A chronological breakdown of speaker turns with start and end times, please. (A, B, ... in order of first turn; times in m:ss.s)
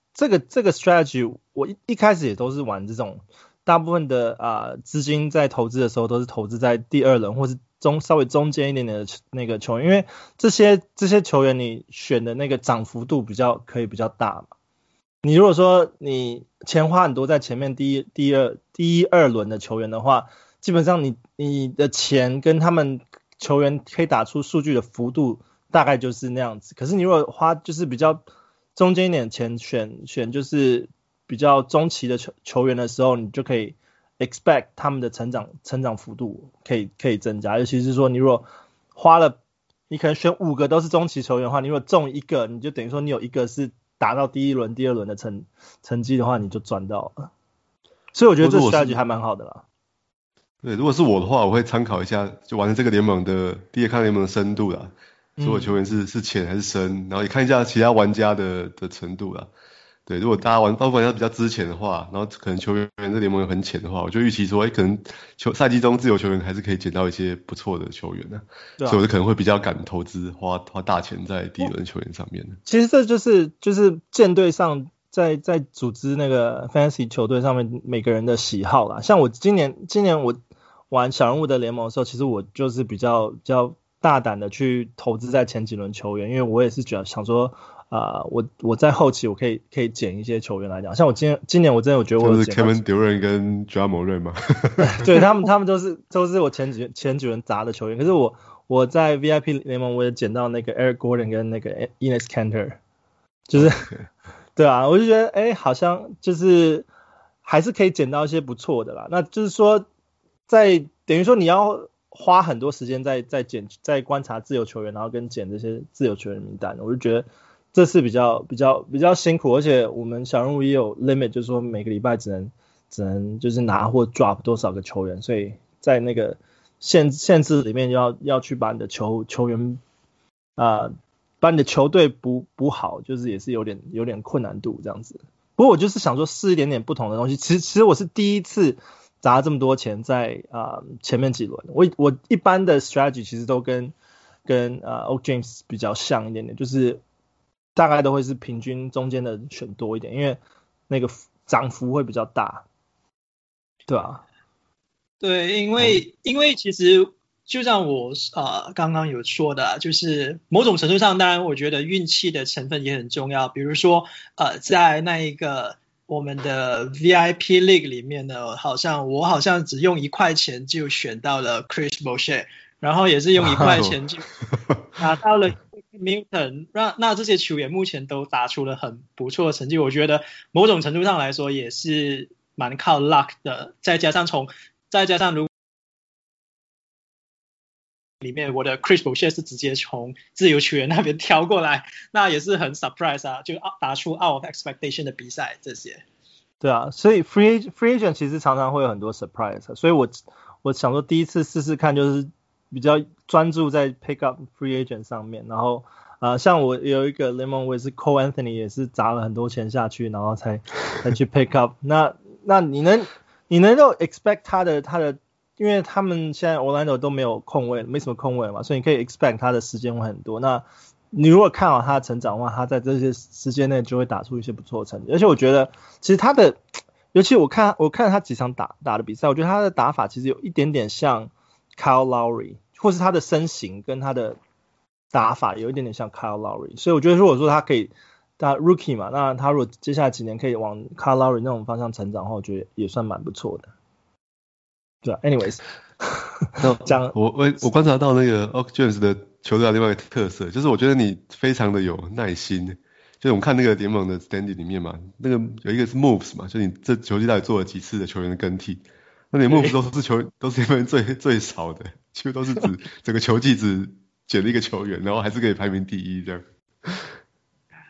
0:00.2-0:14.5 A
0:15.2-0:28.2 A
0:28.8-0:39.4 A
0:39.9-0:47.3 A
0:48.1-0:49.6 A
0:48.4-0:49.0 B
0:50.6-0:59.5 B
0:55.4-0:55.7 A
1:00.1-1:12.6 B
1:12.7-1:20.4 A
1:20.9-1:32.8 A
1:32.2-1:35.1 B
1:34.8-1:42.8 A
1:43.5-1:43.9 A
1:43.5-1:44.1 B
1:44.6-1:46.9 A
1:47.4-1:49.9 A
1:50.5-2:09.8 A
2:10.6-2:24.0 A
2:24.5-2:27.0 A
2:27.8-2:32.6 A
2:33.9-2:34.2 A
2:35.2-2:54.3 C
2:53.4-2:54.8 B
2:53.5-2:53.8 A
2:55.0-3:05.5 C
3:08.2-3:16.0 C
3:16.6-3:54.4 A
3:55.1-4:03.7 A
4:05.0-4:07.1 A
4:06.6-4:27.1 B
4:19.5-4:19.8 C